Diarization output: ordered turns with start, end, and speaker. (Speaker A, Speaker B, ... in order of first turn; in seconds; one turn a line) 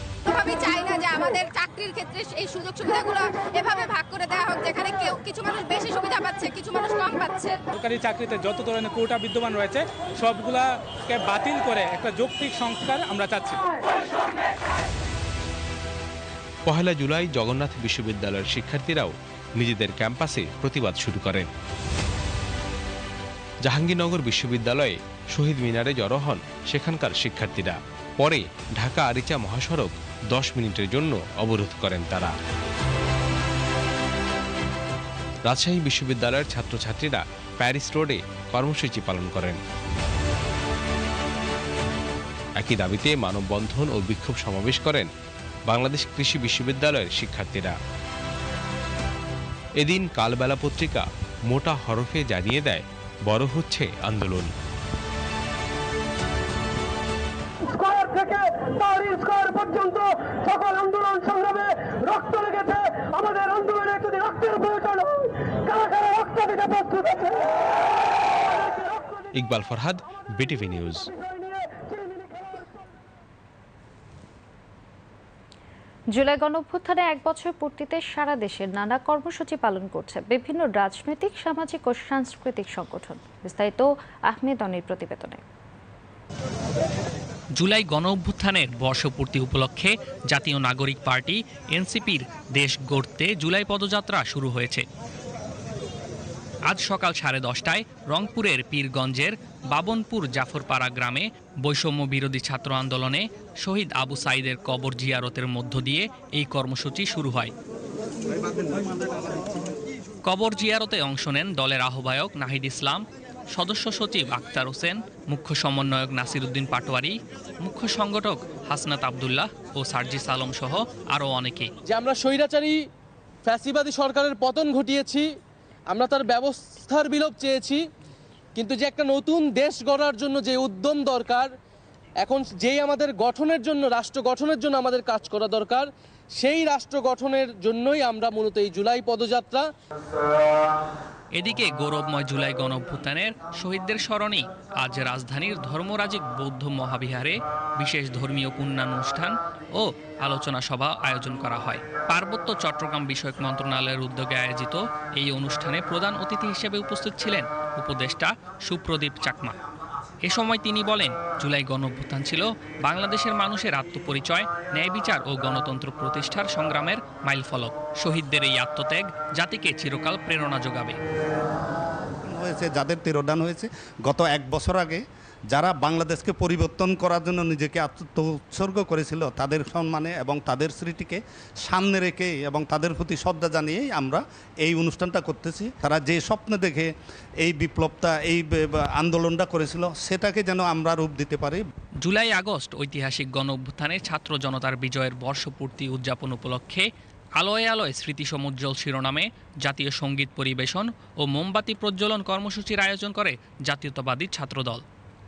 Speaker A: 0.2-7.6
Speaker B: 7.7-13.6
Speaker C: 16.6-21.5
Speaker C: 23.6-32.3
Speaker C: 35.5-39.6
Speaker C: 42.6-45.1
Speaker C: 45.7-47.7
Speaker C: 49.8-54.5
Speaker D: 57.6-69.2
Speaker C: 69.3-71.1
Speaker D: 71.1-72.8
Speaker E: 76.1-85.4
Speaker F: 87.6-94.8
Speaker F: 96.7-107.5
Speaker F: 110.2-121.7
Speaker G: 121.8-122.8
Speaker G: 123.5-125.3
Speaker G: 125.9-127.8
Speaker G: 128.6-131.5
Speaker G: 132.2-139.7
Speaker F: 141.3-159.6
Speaker F: 160.2-171.0
Speaker H: 172.3-175.0
Speaker H: 175.5-186.9
Speaker H: 187.4-191.6
Speaker F: 192.0-204.8